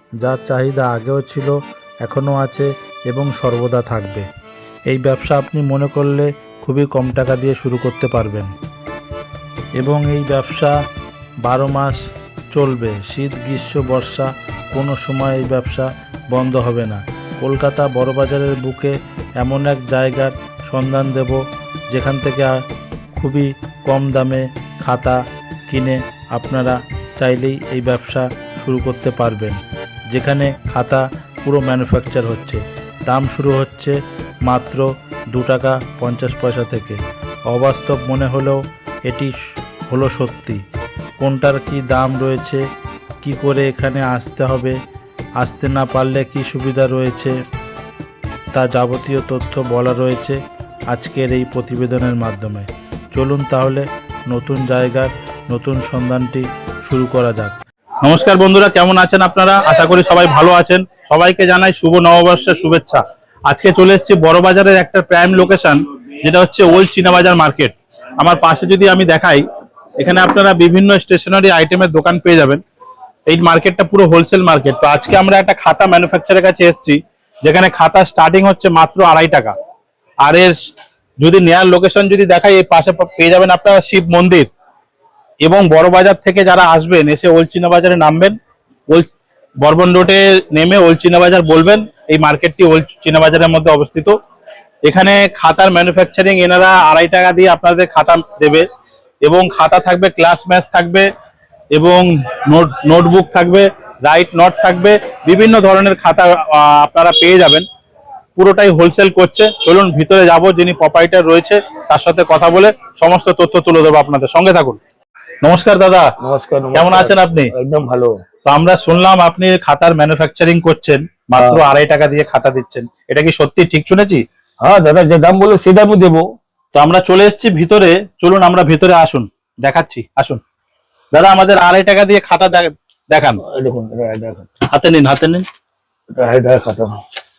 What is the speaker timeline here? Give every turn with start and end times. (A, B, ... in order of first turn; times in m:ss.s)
0:00.2-0:01.5 A
0:02.0-0:04.2 A
0:04.9-0:08.5 A
0:09.8-0:10.7 A
0:11.4-0:12.0 A
0:12.5-0:21.4 A
0:21.9-0:22.5 A
0:23.2-0:29.6 A
0:30.1-0:34.0 A
0:34.5-0:37.0 A
0:37.5-0:39.3 A
0:39.9-0:40.6 A
0:41.2-0:42.6 A
0:43.2-0:44.8 A
0:45.4-0:47.4 A
0:48.5-0:50.4 A
0:50.9-0:57.5 A
0:58.0-1:09.4 B
1:10.0-1:12.6 B
1:13.3-1:19.5 B
1:20.2-1:20.6 B
1:21.2-1:24.5 B
1:25.4-1:28.4 B
1:29.6-1:34.1 B
1:34.8-1:38.6 B
1:39.2-1:41.1 B
1:41.7-1:47.6 B
1:48.4-1:54.8 B
1:55.4-1:56.1 B
1:56.2-1:58.2 C
1:56.7-1:57.5 B
1:58.4-2:04.2 B
2:04.6-2:06.2 C
2:06.7-2:10.4 B
2:11.1-2:13.4 B
2:13.5-2:14.5 C
2:14.7-2:15.4 B
2:16.1-2:16.9 C